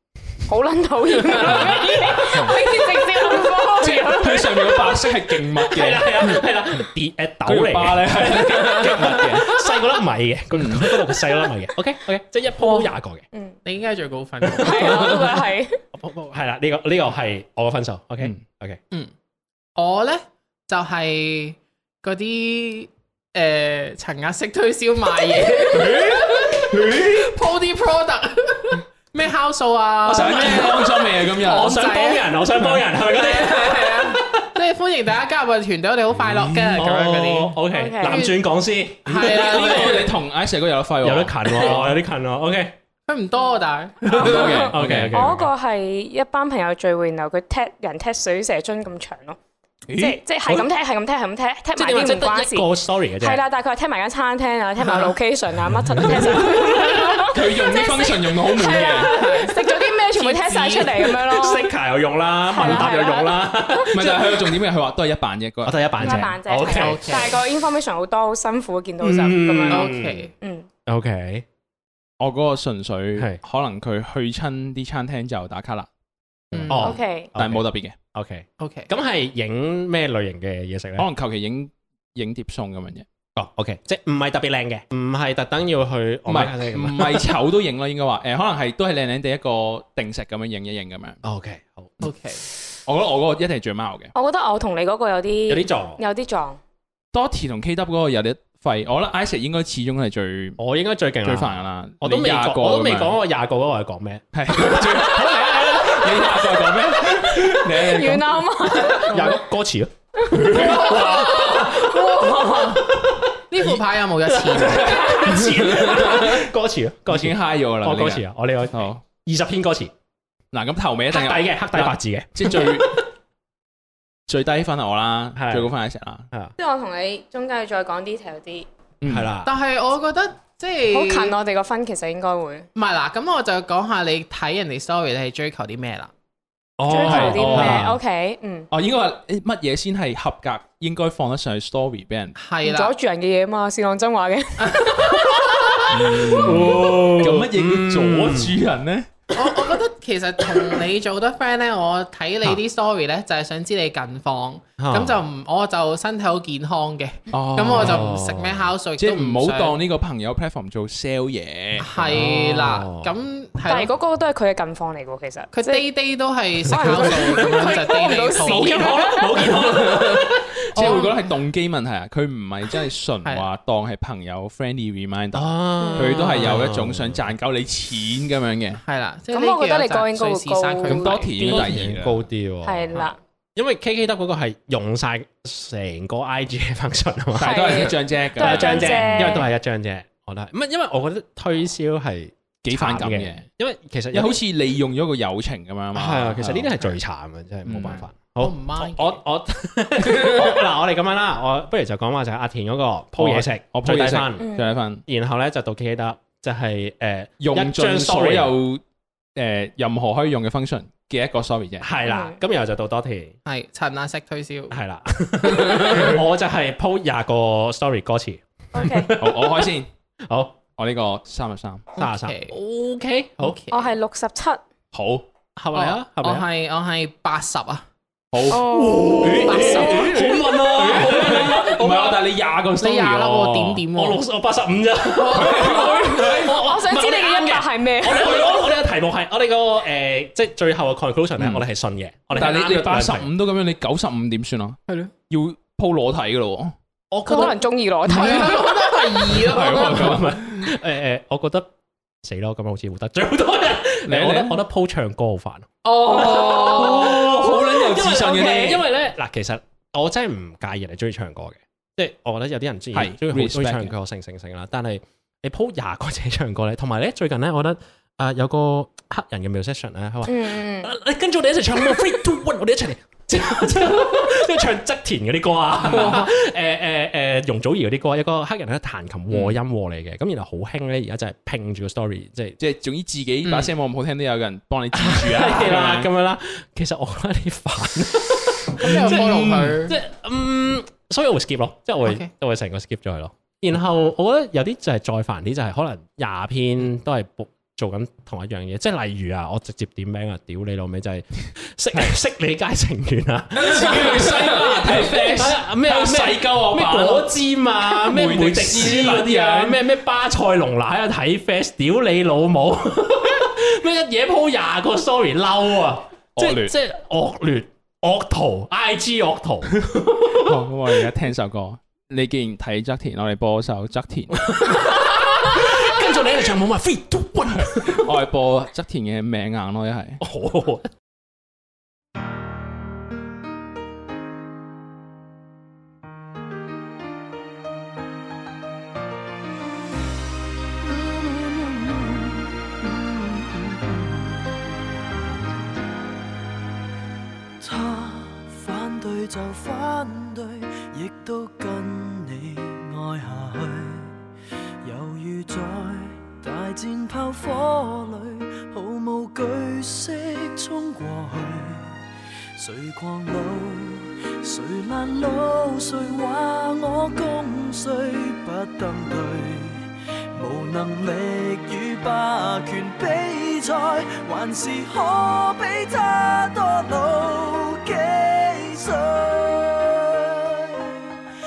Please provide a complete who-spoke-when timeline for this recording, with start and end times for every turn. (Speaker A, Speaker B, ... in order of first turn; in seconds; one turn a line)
Speaker A: 0.5-4.8
Speaker B: 1.2-2.7
Speaker C: 2.3-2.6
Speaker C: 4.0-6.4
Speaker B: 5.4-13.2
Speaker C: 7.4-9.5
Speaker C: 10.5-11.2
Speaker D: 12.6-12.9
Speaker D: 13.6-15.3
Speaker B: 14.4-15.3
Speaker A: 14.6-15.8
Speaker B: 15.9-18.8
Speaker D: 19.8-38.5
Speaker C: 25.7-27.4
Speaker C: 30.0-31.9
Speaker B: 30.1-34.5
Speaker C: 36.1-36.8
Speaker B: 36.7-40.1
Speaker A: 37.7-38.3
Speaker D: 39.0-40.1
Speaker C: 39.1-41.9
Speaker B: 41.0-42.8
Speaker D: 43.1-44.6
Speaker B: 44.1-45.5
Speaker C: 44.1-45.2
Speaker A: 44.1-49.4
Speaker C: 49.9-50.2
Speaker A: 50.0-61.7
Speaker B: 51.8-53.4
Speaker B: 55.7-57.3
Speaker C: 57.2-59.1
Speaker D: 58.8-61.2
Speaker B: 61.2-64.6
Speaker A: 62.5-63.9
Speaker C: 63.9-65.8
Speaker B: 65.6-67.3
Speaker A: 66.0-70.7
Speaker D: 66.7-67.4
Speaker B: 69.0-70.3
Speaker D: 69.7-70.3
Speaker B: 70.8-71.5
Speaker C: 72.2-75.9
Speaker D: 76.5-76.9
Speaker B: 76.5-81.0
Speaker A: 76.8-77.3
Speaker C: 77.3-78.0
Speaker D: 78.6-78.9
Speaker C: 81.0-83.0
Speaker B: 83.3-87.3
Speaker C: 86.3-91.2
Speaker B: 91.2-92.1
Speaker D: 92.0-92.4
Speaker C: 92.8-94.1
Speaker A: 94.1-96.6
Speaker B: 95.5-96.0
Speaker C: 97.1-100.6
Speaker B: 100.6-107.5
Speaker C: 101.2-103.2
Speaker C: 104.3-108.5
Speaker A: 107.7-109.4
Speaker B: 108.7-119.9
Speaker C: 110.3-111.0
Speaker D: 110.5-112.9
Speaker D: 113.5-115.6
Speaker C: 114.6-116.4
Speaker C: 117.1-119.0
Speaker C: 120.5-123.0
Speaker B: 121.1-123.1
Speaker C: 124.3-126.3
Speaker B: 125.3-125.7
Speaker A: 126.6-128.7
Speaker C: 129.0-129.3
Speaker B: 129.1-129.5
Speaker D: 129.4-131.3
Speaker A: 130.9-132.7
Speaker D: 132.7-136.1
Speaker B: 136.8-138.0
Speaker A: 136.9-138.7
Speaker C: 137.0-137.9
Speaker C: 138.7-142.4
Speaker D: 142.4-142.9
Speaker A: 142.6-145.2
Speaker D: 144.6-145.8
Speaker B: 145.1-148.6
Speaker C: 145.9-149.3
Speaker D: 149.3-159.8
Speaker B: 154.8-155.2
Speaker C: 157.3-158.1
Speaker B: 157.7-158.7
Speaker C: 159.0-162.2
Speaker D: 161.8-163.9
Speaker B: 161.9-163.1
Speaker A: 163.7-165.8
Speaker D: 165.5-169.0
Speaker B: 166.6-171.1
Speaker A: 166.7-169.6
Speaker C: 169.6-170.2
Speaker C: 170.7-178.8
Speaker D: 170.7-171.1
Speaker B: 175.3-177.2
Speaker A: 175.8-176.5
Speaker D: 178.8-181.2
Speaker A: 179.3-181.8
Speaker C: 180.9-182.2
Speaker B: 181.4-194.4
Speaker A: 182.6-183.2
Speaker C: 187.4-189.4
Speaker A: 187.4-189.5
Speaker C: 192.6-193.4
Speaker C: 194.1-196.8
Speaker B: 195.9-204.5
Speaker C: 197.7-198.0
Speaker D: 198.4-199.2
Speaker D: 200.1-200.5
Speaker C: 203.2-205.0
Speaker A: 204.4-204.7
Speaker B: 205.1-208.5
Speaker C: 207.4-208.8
Speaker C: 209.3-211.9
Speaker B: 211.8-213.4
Speaker A: 212.1-212.4
Speaker D: 213.4-214.7
Speaker B: 214.7-219.7
Speaker D: 215.4-216.2
Speaker A: 218.7-219.1
Speaker C: 219.2-219.9
Speaker B: 220.3-220.6
Speaker C: 220.8-221.8
Speaker D: 221.9-222.6
Speaker B: 222.0-223.6
Speaker D: 223.4-223.9
Speaker A: 223.7-224.6
Speaker C: 224.9-225.2
Speaker B: 225.6-226.5
Speaker D: 225.7-227.8
Speaker C: 228.3-233.8
Speaker A: 228.5-230.0
Speaker B: 228.5-232.2
Speaker D: 229.4-230.2
Speaker D: 230.8-231.5
Speaker D: 232.8-234.2
Speaker B: 233.9-243.3
Speaker D: 235.1-236.4
Speaker C: 235.3-236.5
Speaker A: 235.9-238.5
Speaker C: 242.3-244.8
Speaker C: 245.3-246.7
Speaker B: 247.1-251.7
Speaker A: 247.2-248.7
Speaker D: 248.1-250.3
Speaker C: 249.3-250.7
Speaker B: 252.2-282.6
Speaker C: 254.1-254.6
Speaker D: 255.8-257.2
Speaker C: 256.2-258.9
Speaker C: 262.9-263.9
Speaker A: 270.2-270.9
Speaker C: 275.8-276.2
Speaker D: 275.9-276.3
Speaker C: 279.3-279.6
Speaker C: 282.6-286.1
Speaker B: 283.4-283.7
Speaker B: 284.9-320.7
Speaker D: 288.8-289.9
Speaker C: 288.9-289.7
Speaker D: 292.0-292.3
Speaker C: 303.5-307.3
Speaker C: 307.9-309.8
Speaker C: 316.4-316.7
Speaker C: 320.4-324.4
Speaker B: 324.3-328.2
Speaker C: 327.6-330.2
Speaker B: 330.2-330.9
Speaker E: 340.8-344.6
Speaker E: 347.6-354.1
Speaker E: 354.8-361.9
Speaker E: 362.6-381.1